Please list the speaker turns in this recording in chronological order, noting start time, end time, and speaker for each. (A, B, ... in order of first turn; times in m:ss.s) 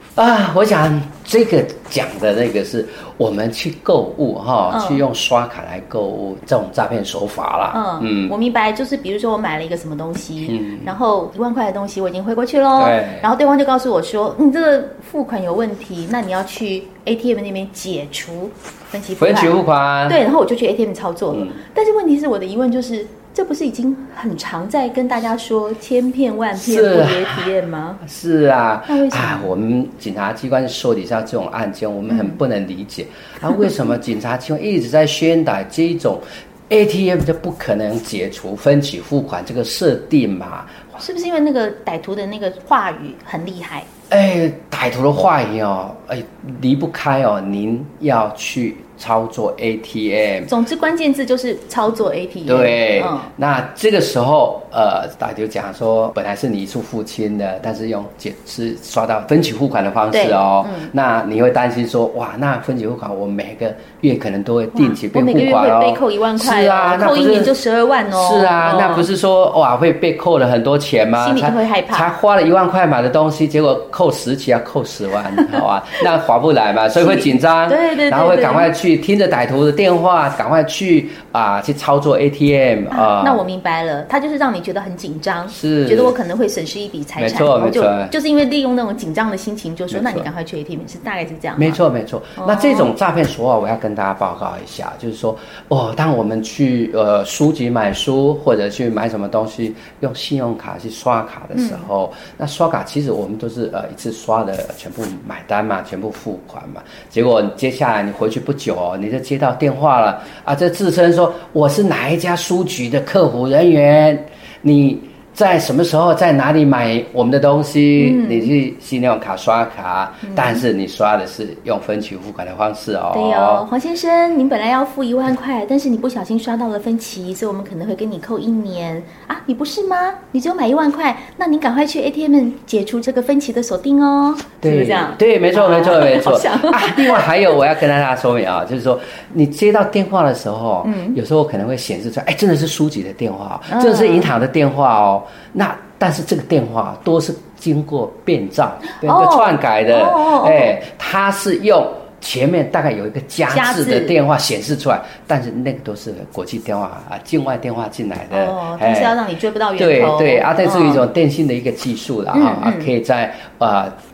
0:00.2-0:08.3 A
0:04.7-0:05.0 B
0:07.7-0:28.0 B
0:10.4-0:10.9 A
0:12.8-0:13.3 A
0:19.2-0:20.2 A
0:21.3-0:21.6 A
0:26.6-0:27.5 A
0:28.0-0:40.8 A
0:28.9-0:29.5 B
0:32.1-0:32.4 B
0:41.0-0:43.9 B
0:44.1-0:50.5 A
0:50.5-0:53.3 B
0:52.5-1:07.5 A
1:00.1-1:00.9 B
1:04.7-1:09.1 B
1:08.1-1:23.4 A
1:11.2-1:12.1 B
1:17.0-1:18.7 B
1:22.9-1:31.8 B
1:25.5-1:26.1 A
1:27.2-1:28.1 A
1:29.9-1:30.3 A
1:31.6-2:03.6 A
1:32.4-1:32.9 B
1:41.5-1:41.8 B
1:58.0-1:58.5 B
2:00.2-2:00.6 B
2:03.1-2:17.6 B
2:14.6-2:39.2 A
2:20.8-2:21.2 B
2:23.7-2:24.3 B
2:28.9-2:30.8 B
2:33.5-2:34.1 B
2:38.3-2:41.0 B
2:39.8-2:43.9 A
2:42.3-2:42.9 B